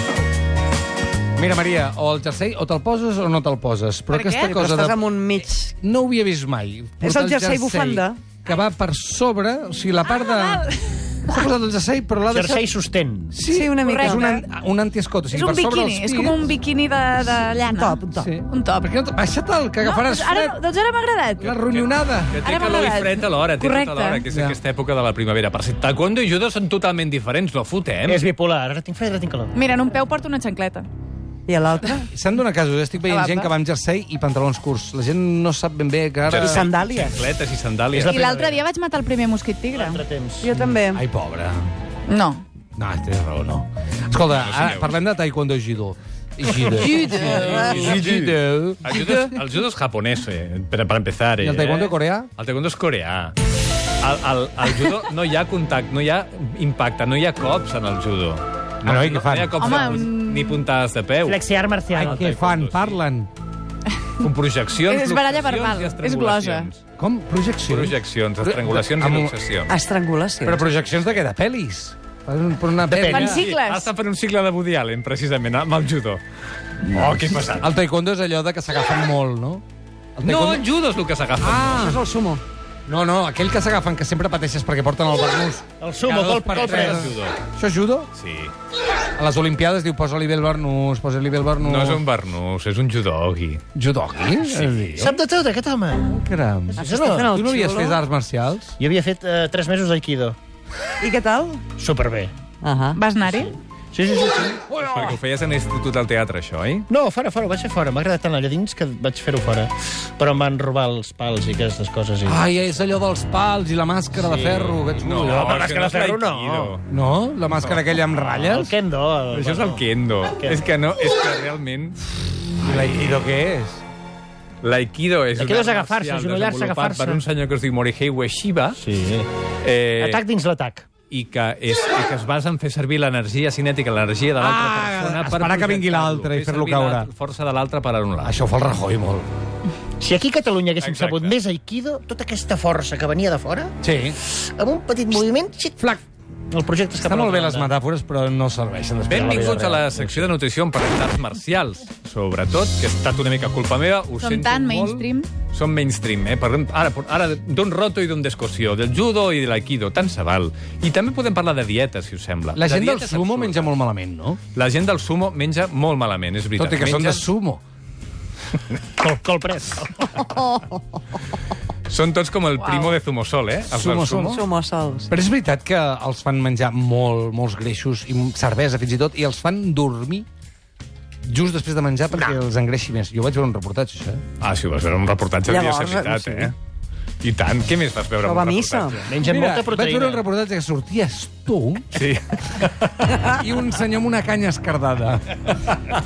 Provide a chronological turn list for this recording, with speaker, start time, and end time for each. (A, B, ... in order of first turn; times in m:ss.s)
0:01.4-0:10.6 A
0:04.1-0:04.5 B
0:04.4-0:05.7 C
0:07.0-0:08.2 C
0:10.1-0:11.4 B
0:11.3-0:12.6 A
0:12.3-0:13.4 D
0:13.3-0:16.5 A
0:13.5-0:14.4 C
0:13.8-0:14.4 B
0:15.3-0:18.9 B
0:17.4-0:18.3 C
0:18.1-0:20.6 A
0:19.8-0:21.6 B
0:21.4-0:22.4 A
0:21.7-0:28.2 E
0:22.4-0:24.2 B
0:24.3-0:24.6 A
0:28.0-0:29.5 D
0:29.5-0:30.9 B
0:31.5-0:32.1 C
0:32.1-0:36.7 A
0:33.0-0:33.5 B
0:36.2-0:38.2 E
0:36.4-0:37.3 C
0:37.9-0:38.6 D
0:38.0-0:40.0 B
0:39.7-0:40.5 D
0:40.4-0:41.0 C
0:40.6-0:41.7 A
0:42.1-0:42.4 B
0:42.8-0:49.0 A
0:44.3-0:45.0 E
0:47.1-0:48.3 D
0:47.2-0:48.1 E
0:48.8-0:53.3 E
0:51.4-0:52.3 A
0:54.0-1:01.4 E
0:58.8-1:00.0 A
0:59.5-1:00.6 B
1:01.2-1:02.4 D
1:01.9-1:03.0 E
1:01.9-1:03.3 A
1:04.2-1:06.8 E
1:04.7-1:06.7 B
1:07.0-1:09.3 A
1:07.7-1:09.7 E
1:09.7-1:10.6 C
1:10.4-1:13.4 A
1:12.9-1:13.3 D
1:13.1-1:13.9 B
1:13.1-1:16.2 E
1:16.8-1:17.7 E
1:17.2-1:19.6 A
1:20.2-1:20.6 A
1:20.2-1:22.0 E
1:21.4-1:22.0 A
1:21.7-1:22.4 C
1:22.9-1:28.1 A
1:25.8-1:27.2 D
1:26.4-1:27.4 E
1:28.1-1:28.5 E
1:29.2-1:32.0 A
1:31.6-1:33.6 E
1:33.7-1:35.2 A
1:34.5-1:34.7 E
1:35.0-1:36.2 D
1:36.1-1:38.7 A
1:36.7-1:37.3 D
1:36.8-1:38.0 C
1:38.8-1:40.4 D
1:41.0-1:41.6 C
1:41.8-1:42.3 D
1:42.6-1:43.0 C
1:42.9-1:43.5 B
1:43.2-1:44.7 D
1:44.8-1:46.9 E
1:46.9-1:52.4 D
1:52.2-1:55.5 A
1:54.1-1:56.8 D
1:54.9-1:56.8 E
1:56.9-1:58.7 A
1:57.5-1:57.8 E
1:58.2-1:59.8 D
1:59.3-2:02.0 E
2:00.4-2:00.7 D
2:02.6-2:03.1 E
2:02.6-2:03.8 A
2:04.6-2:08.8 E
2:05.4-2:07.2 D
2:08.8-2:09.3 D
2:09.6-2:10.2 E
2:10.0-2:10.9 D
2:11.1-2:18.4 E
2:14.4-2:17.1 A
2:18.2-2:19.3 A
2:20.0-2:25.8 D
2:20.8-2:21.4 E
2:23.8-2:24.2 A
2:26.5-2:27.7 D
2:27.0-2:29.8 A
2:29.0-2:30.3 D
2:29.1-2:43.8 E
2:34.2-2:35.3 B
2:42.5-2:44.4 A
2:44.5-2:47.3 E
2:46.6-2:47.6 A
2:48.8-2:50.3 D
2:50.3-2:50.7 C
2:51.9-2:54.4 E
2:52.6-2:53.0 B
2:53.7-2:54.4 A
2:54.3-2:55.1 C
2:55.1-3:00.3 A
3:01.2-3:04.2 A
3:04.4-3:06.5 E
3:05.5-3:06.5 C
3:07.2-3:09.0 E
3:08.2-3:09.0 C
3:09.0-3:10.2 D
3:09.2-3:11.9 A
3:11.9-3:13.3 E
3:13.2-3:15.5 A